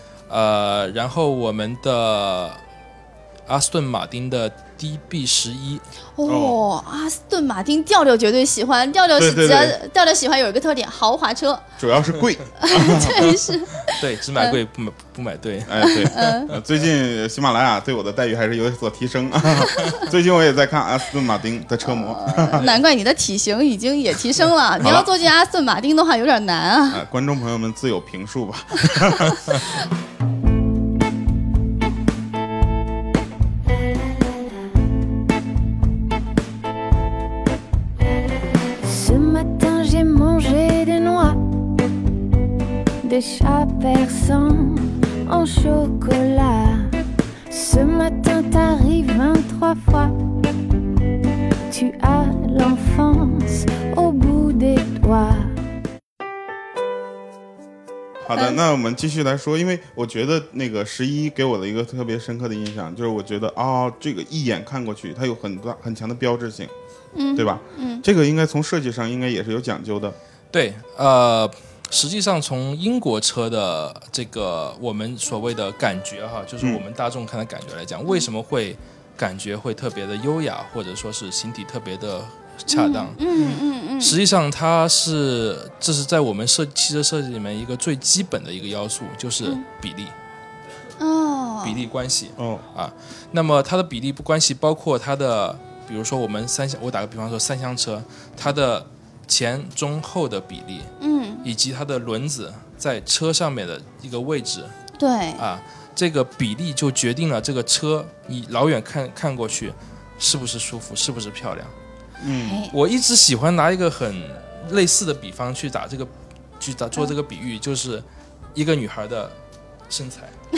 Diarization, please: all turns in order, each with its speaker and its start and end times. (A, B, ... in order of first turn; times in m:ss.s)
0:00.3-0:02.6 A
0:03.5-0:05.8 A
0:06.2-0:11.6 B
0:06.2-0:06.6 C
0:09.2-0:09.8 C
0:11.8-0:13.4 C
0:12.6-0:14.6 B
0:13.8-0:16.6 A
0:15.6-0:22.6 C
0:15.9-0:16.5 B
0:19.6-0:20.0 B
0:21.8-0:27.0 B
0:24.8-0:25.1 C
0:26.9-0:29.5 C
0:38.8-0:41.5 D
0:43.0-0:47.0 D
0:47.5-0:50.1 D
0:51.7-0:55.6 D
0:58.2-1:06.7 C
1:07.1-1:08.0 B
1:07.3-1:10.2 C
1:10.5-1:23.2 A
1:22.7-1:24.2 B
1:24.0-1:30.1 A
1:31.0-1:31.8 B
1:31.6-1:40.9 A
1:32.4-1:32.6 C
1:41.0-1:41.4 B
1:41.4-1:44.7 A
1:45.0-1:45.4 B
1:45.4-1:51.7 A
1:52.2-1:52.6 C
1:52.3-1:52.7 B
1:52.7-1:59.4 A
1:59.9-2:00.3 A